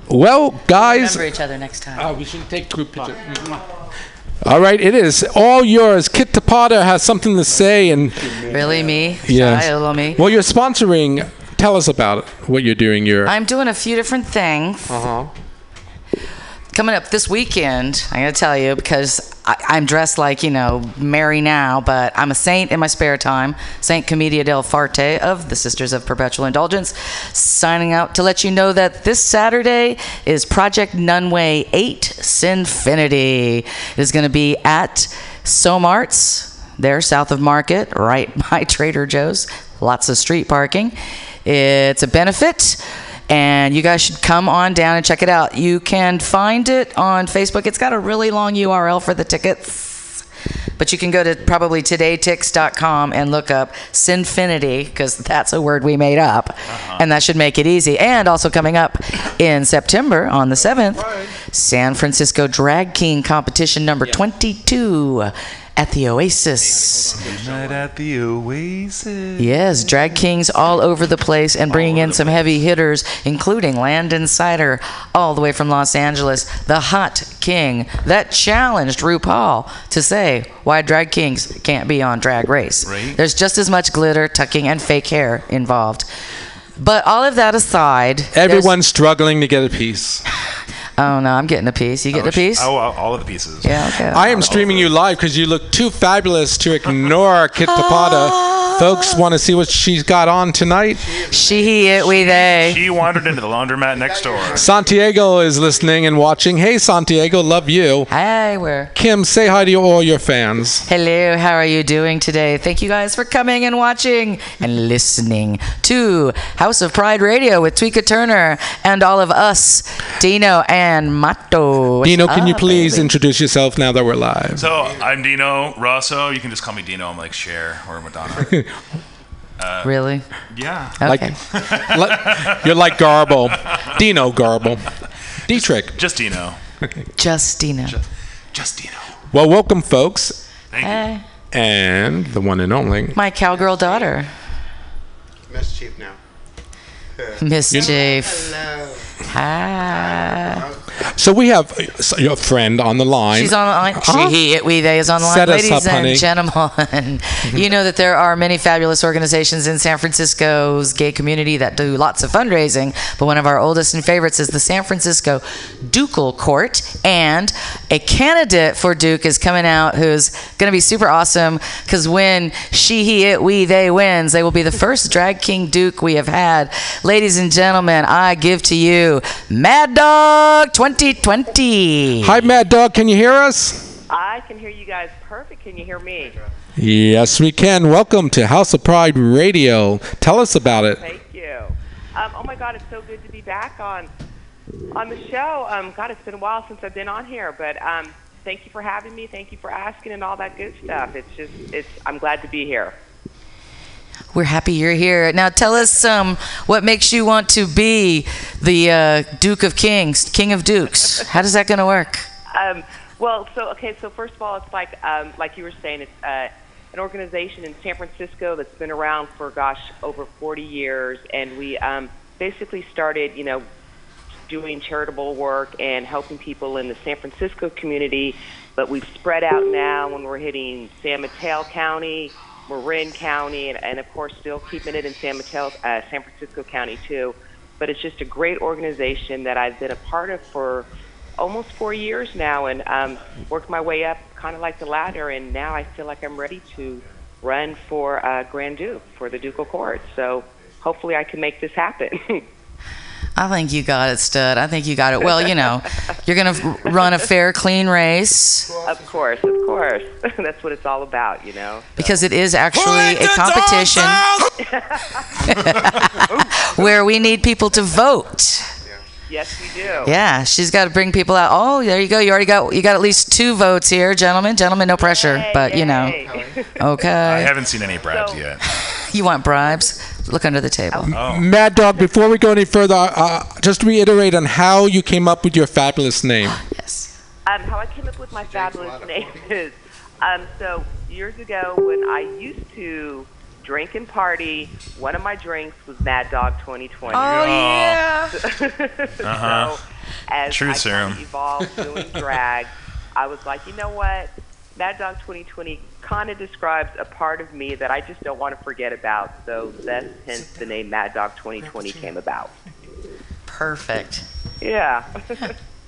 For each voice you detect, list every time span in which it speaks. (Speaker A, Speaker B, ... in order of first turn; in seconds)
Speaker A: 0.1-1.2, 2.0-3.5, 4.4-8.5, 9.2-13.3, 14.9-15.3, 88.3-90.2, 94.1-101.1, 104.5-108.1, 108.9-110.8, 122.0-124.6, 131.0-134.8, 135.5-136.0, 139.3-140.4, 141.5-143.2, 151.1-154.4, 155.2-156.3, 182.2-183.9, 186.8-191.0, 281.1-286.6
Speaker B: 0.7-2.1, 8.5-10.2, 13.3-15.0, 16.7-50.2, 50.8-67.0, 69.4-86.1, 86.8-88.7, 91.0-92.7, 93.6-94.6, 97.6-99.2, 101.3-102.8, 108.1-108.9, 110.9-123.1, 129.8-130.2, 131.0-131.3, 137.2-137.9, 140.8-141.2, 143.1-144.3, 147.4-148.5, 149.3-150.6, 153.3-182.4, 204.3-212.3, 253.4-258.7, 262.0-264.2, 265.4-268.7, 270.0-276.2, 276.8-277.5, 279.1-281.1, 286.5-287.1, 297.1-298.3, 313.5-314.2
Speaker C: 56.7-57.0, 67.1-69.5, 71.7-72.5, 82.8-83.2, 92.1-95.0, 102.2-104.7, 124.5-128.6, 129.6-129.9, 130.5-133.9, 135.5-136.6, 138.5-139.1, 140.7-141.1, 277.2-278.8, 281.1-281.5, 297.1-298.0, 299.2-299.8, 300.5-301.2
Speaker D: 101.0-102.7, 103.9-105.8, 124.8-125.1, 143.5-144.1, 145.5-146.2, 147.2-149.2, 149.8-150.8, 258.7-259.6, 269.8-270.1, 275.8-276.6, 288.4-289.6
Speaker E: 184.1-186.3, 190.9-194.1, 194.9-202.9, 212.6-223.6, 224.5-240.9, 241.4-252.4, 255.4-255.8, 258.8-262.0, 264.7-265.2, 269.3-270.1, 275.0-276.7, 278.0-278.4, 287.4-297.3, 298.4-312.5, 314.6-315.5